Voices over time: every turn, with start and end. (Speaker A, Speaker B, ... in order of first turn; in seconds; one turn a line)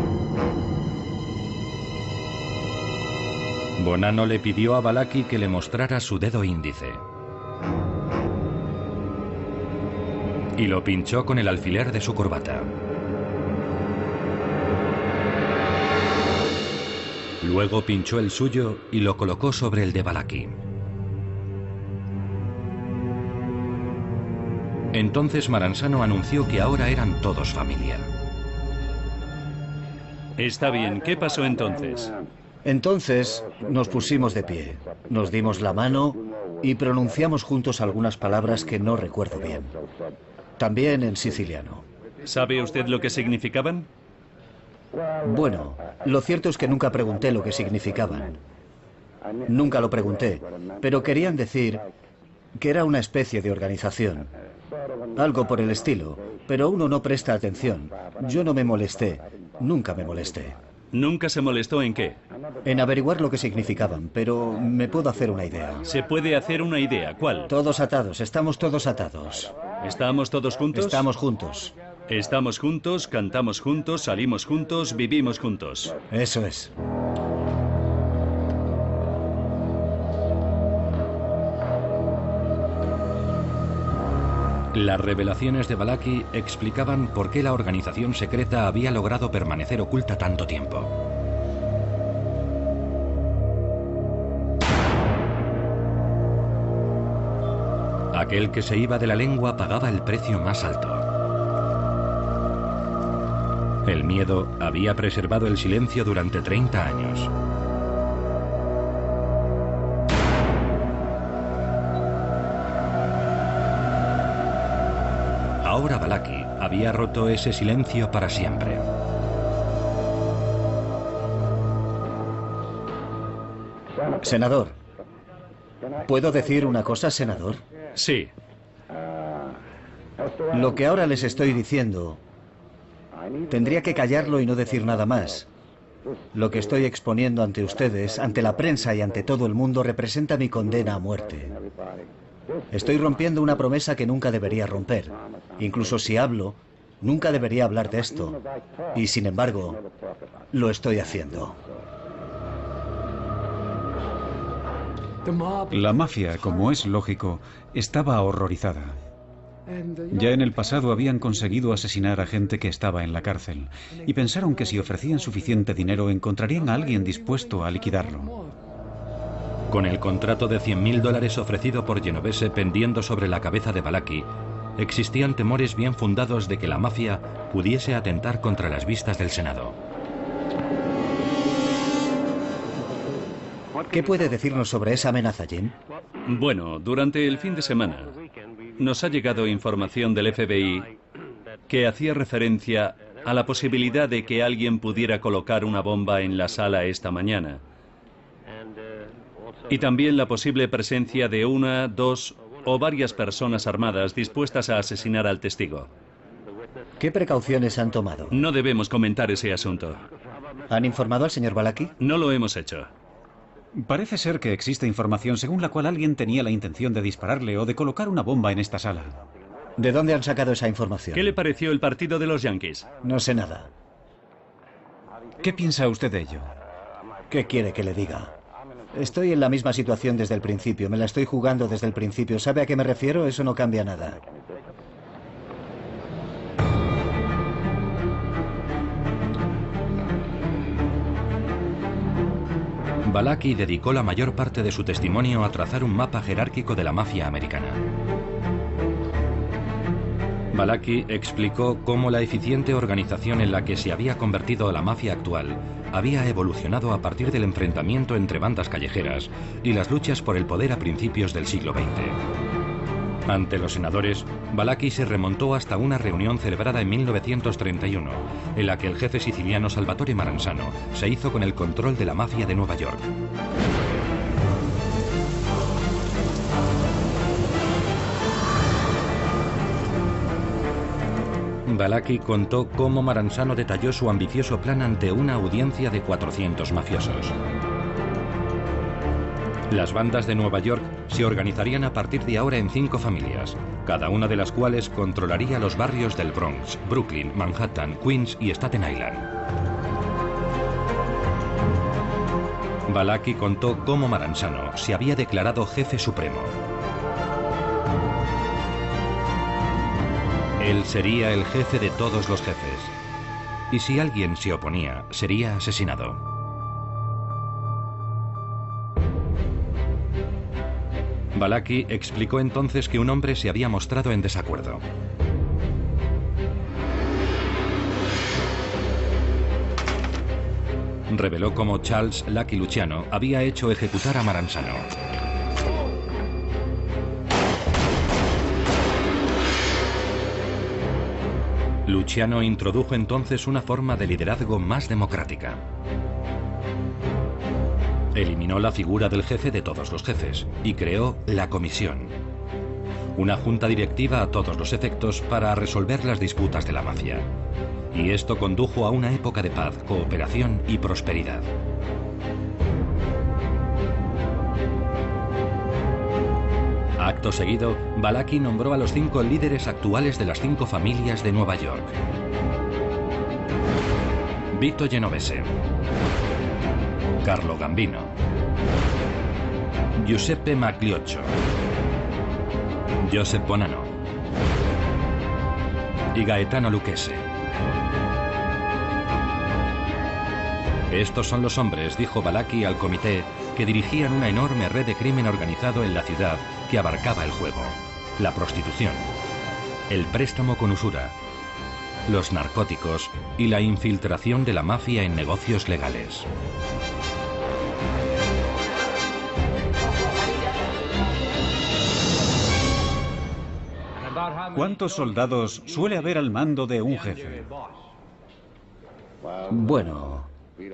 Speaker A: 3.8-7.0
Speaker A: 10.6-12.7
Speaker A: 17.4-20.6
Speaker A: 24.9-28.1
Speaker B: 30.4-32.1
Speaker C: 32.6-39.7
Speaker C: 40.6-41.9
Speaker B: 42.2-43.9
Speaker C: 45.2-48.4
Speaker C: 49.5-51.9
Speaker C: 52.6-54.3
Speaker C: 55.1-60.6
Speaker B: 60.9-62.2
Speaker C: 62.6-65.9
Speaker B: 65.9-67.5
Speaker C: 67.5-69.5
Speaker B: 69.8-71.1
Speaker C: 70.7-71.7
Speaker B: 72.1-76.0
Speaker C: 76.1-76.7
Speaker A: 84.7-90.9
Speaker A: 98.1-101.1
Speaker A: 103.9-107.3
Speaker A: 115.6-118.9
Speaker C: 124.2-124.8
Speaker C: 126.1-127.6
Speaker B: 128.0-128.3
Speaker C: 130.5-132.2
Speaker C: 133.5-135.5
Speaker C: 136.3-141.6
Speaker C: 142.7-148.4
Speaker C: 148.9-149.8
Speaker C: 150.5-151.6
Speaker D: 155.7-159.0
Speaker D: 160.1-168.3
Speaker A: 169.7-179.8
Speaker C: 183.9-185.7
Speaker B: 186.3-188.2
Speaker B: 188.8-190.9
Speaker B: 191.7-197.6
Speaker B: 199.7-205.9
Speaker C: 207.0-208.4
Speaker B: 208.3-210.0
Speaker C: 210.7-211.9
Speaker B: 212.0-212.9
Speaker D: 213.8-219.2
Speaker C: 219.8-221.4
Speaker B: 221.1-222.9
Speaker C: 223.0-223.7
Speaker D: 225.4-226.5
Speaker C: 227.3-228.3
Speaker C: 228.9-234.2
Speaker A: 243.1-247.8
Speaker A: 250.5-262.2
Speaker A: 263.3-273.1
Speaker A: 281.7-287.4
Speaker A: 289.7-299.3
Speaker A: 302.9-306.6
Speaker A: 310.6-312.9
Speaker A: 313.7-316.2
Speaker A: 321.4-324.8
Speaker A: 331.1-334.9
Speaker A: 341.9-345.6
Speaker A: 348.1-352.2
Speaker A: 353.2-357.3
Speaker A: 357.9-361.5
Speaker A: 367.0-371.9
Speaker A: 374.5-375.6
Speaker A: 377.2-378.1
Speaker A: 380.0-381.3
Speaker A: 383.0-383.9
Speaker A: 386.1-387.2
Speaker A: 390.9-399.1
Speaker A: 399.9-401.2
Speaker A: 402.1-406.3
Speaker D: 414.5-417.5
Speaker C: 419.5-420.3